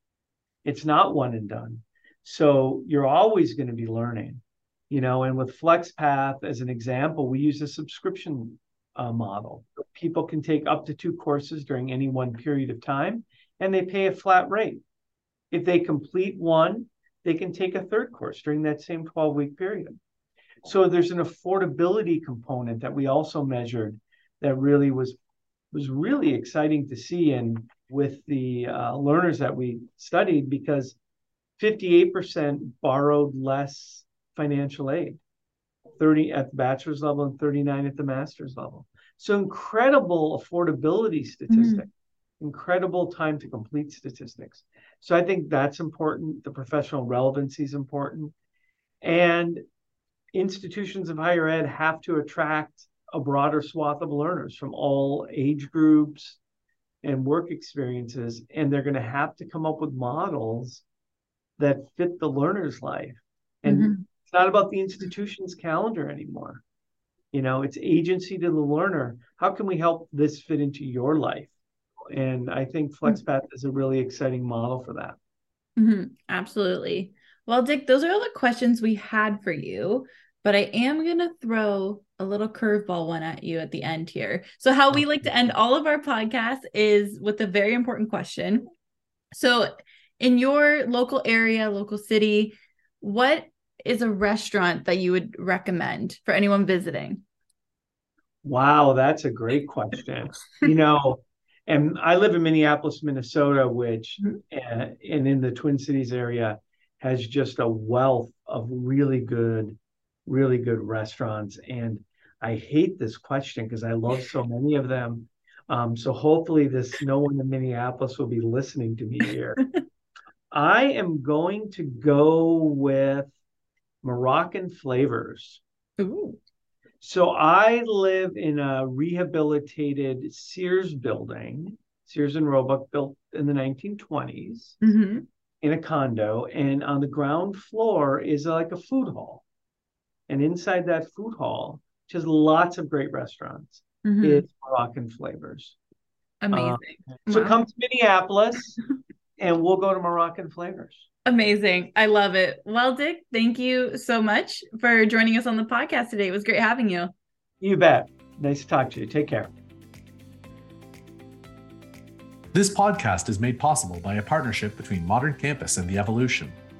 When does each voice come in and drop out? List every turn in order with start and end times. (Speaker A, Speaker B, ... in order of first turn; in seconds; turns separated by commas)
Speaker A: 0.7-14.8, Speaker A: 15.5-20.0, Speaker A: 20.6-25.2, Speaker A: 25.7-31.0, Speaker A: 31.6-35.2, Speaker A: 36.0-48.3, Speaker B: 41.5-41.8, Speaker A: 49.0-49.6, Speaker A: 50.3-56.4, Speaker A: 57.0-60.9, Speaker A: 61.6-66.6, Speaker B: 63.7-64.0, Speaker A: 67.3-71.5, Speaker A: 72.1-75.2, Speaker B: 75.8-88.7, Speaker B: 89.3-97.2, Speaker A: 98.4-119.6, Speaker A: 120.5-123.3, Speaker A: 124.0-125.6, Speaker B: 126.0-126.4, Speaker A: 127.0-134.8, Speaker B: 134.8-135.2, Speaker A: 135.6-139.4, Speaker A: 140.3-145.8, Speaker B: 144.0-144.4, Speaker B: 146.4-147.7, Speaker A: 146.5-148.8, Speaker A: 149.4-151.1, Speaker B: 151.2-157.1, Speaker A: 157.6-159.5, Speaker C: 162.5-166.6